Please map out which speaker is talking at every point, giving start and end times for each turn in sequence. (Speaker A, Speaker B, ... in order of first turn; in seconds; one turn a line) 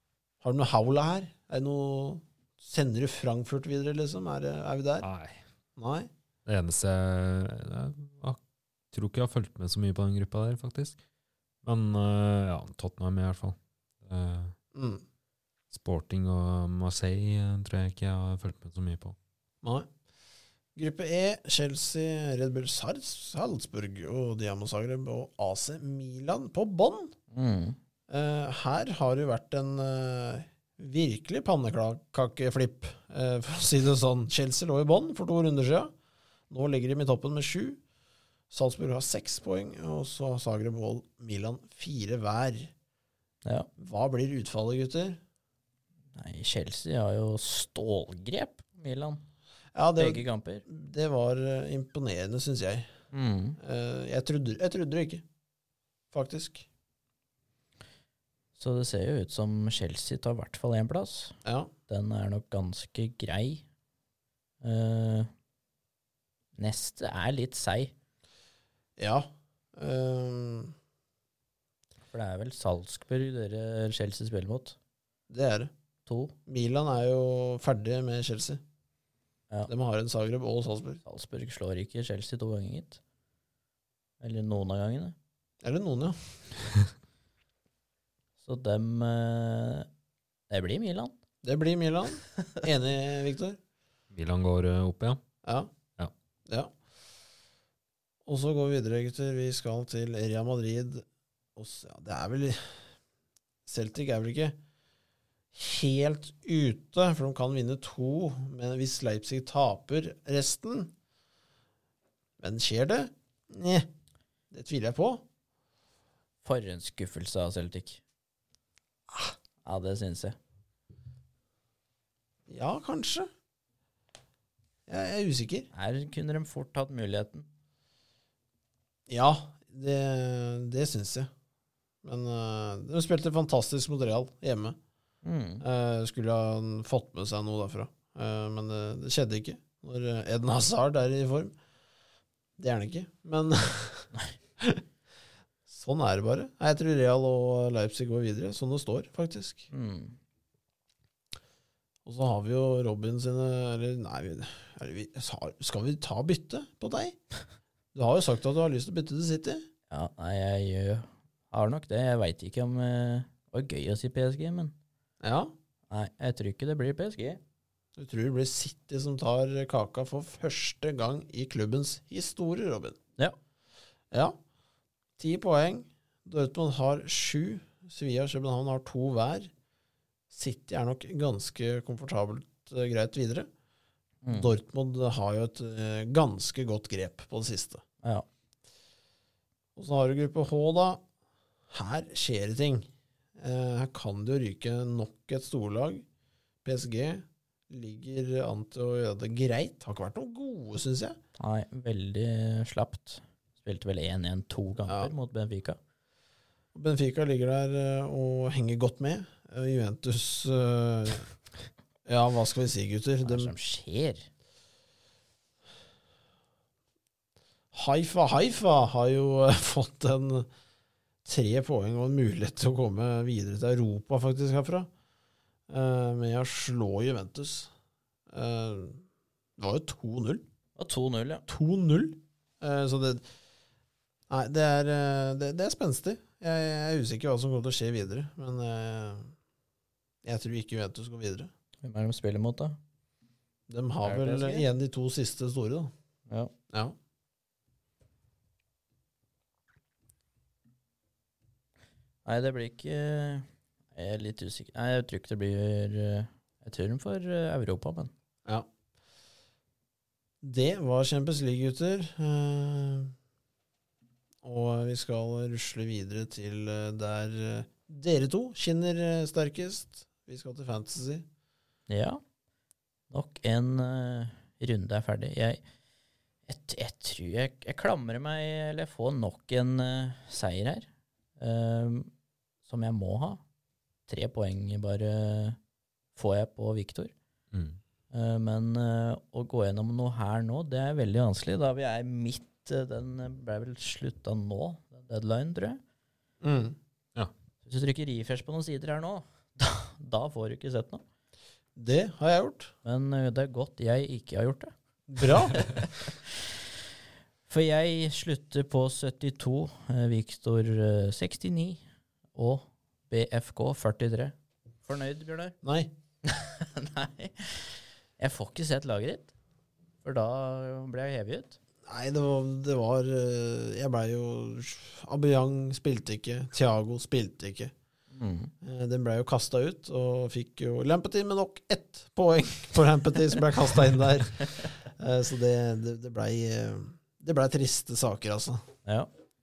Speaker A: 0.4-5.1
Speaker B: 5.0-5.4
Speaker A: 5.8-6.1
Speaker B: 6.5-8.4
Speaker B: 8.9-11.0
Speaker B: 11.6-14.6
Speaker A: 14.7-15.0
Speaker B: 15.7-19.2
Speaker A: 19.6-19.9
Speaker A: 20.8-27.1
Speaker C: 27.3-27.8
Speaker A: 28.1-35.9
Speaker A: 36.5-37.8
Speaker A: 38.5-42.7
Speaker A: 43.8-45.2
Speaker C: 46.1-49.2
Speaker A: 49.8-52.9
Speaker C: 50.0-50.6
Speaker C: 53.1-53.6
Speaker A: 53.6-55.2
Speaker A: 56.1-56.7
Speaker C: 58.6-61.4
Speaker A: 61.5-61.7
Speaker C: 61.9-63.6
Speaker C: 64.6-65.3
Speaker C: 66.6-67.9
Speaker A: 69.0-70.8
Speaker C: 72.1-74.8
Speaker A: 75.3-75.7
Speaker C: 76.1-76.3
Speaker A: 76.5-78.6
Speaker A: 79.7-81.0
Speaker C: 81.0-83.0
Speaker C: 84.2-85.2
Speaker A: 85.6-86.2
Speaker C: 88.4-89.9
Speaker C: 90.5-91.2
Speaker A: 91.4-93.6
Speaker B: 94.1-95.2
Speaker A: 95.4-95.7
Speaker A: 98.3-101.0
Speaker A: 101.6-102.9
Speaker A: 103.7-104.6
Speaker A: 105.5-110.9
Speaker A: 112.4-113.9
Speaker A: 114.5-115.2
Speaker C: 116.4-118.0
Speaker C: 119.7-120.4
Speaker A: 122.5-123.3
Speaker A: 124.9-125.7
Speaker C: 125.7-127.5
Speaker A: 129.1-131.3
Speaker A: 132.0-134.8
Speaker C: 135.2-135.6
Speaker A: 135.6-141.6
Speaker A: 142.6-144.8
Speaker A: 145.7-149.7
Speaker C: 149.7-150.2
Speaker A: 152.1-157.2
Speaker A: 157.9-159.7
Speaker C: 159.9-164.7
Speaker A: 165.2-165.5
Speaker C: 165.9-167.4
Speaker A: 168.0-173.0
Speaker A: 174.1-174.4
Speaker A: 175.2-179.5
Speaker A: 180.3-183.5
Speaker C: 184.2-184.5
Speaker A: 184.3-187.8
Speaker A: 189.8-191.0
Speaker A: 191.7-196.1
Speaker A: 196.6-201.2
Speaker C: 201.4-205.8
Speaker A: 204.8-205.1
Speaker A: 206.7-211.3
Speaker A: 212.1-213.5
Speaker C: 213.2-214.3
Speaker A: 217.7-220.5
Speaker A: 221.2-224.9
Speaker A: 225.7-227.7
Speaker A: 228.3-229.0
Speaker A: 229.6-230.4
Speaker C: 230.8-231.4
Speaker A: 231.5-233.2
Speaker A: 234.3-239.3
Speaker A: 240.2-241.5
Speaker C: 241.8-242.8
Speaker A: 243.7-245.9
Speaker C: 244.0-244.7
Speaker A: 246.7-247.0
Speaker C: 252.2-258.1
Speaker A: 260.4-263.1
Speaker A: 264.4-271.2
Speaker C: 271.9-272.2
Speaker C: 273.1-275.6
Speaker C: 276.5-282.1
Speaker C: 282.7-283.4
Speaker C: 284.1-285.6
Speaker C: 286.2-287.1
Speaker B: 287.5-287.8
Speaker C: 288.1-295.8
Speaker A: 296.4-296.8
Speaker C: 297.6-301.0
Speaker A: 301.8-302.7
Speaker C: 302.8-306.6
Speaker A: 305.1-305.6
Speaker C: 307.5-311.8
Speaker C: 312.4-314.4
Speaker C: 314.9-315.6
Speaker A: 315.6-315.9
Speaker C: 316.2-319.3
Speaker C: 320.0-321.6
Speaker A: 321.9-327.7
Speaker C: 328.1-328.5
Speaker A: 328.6-338.6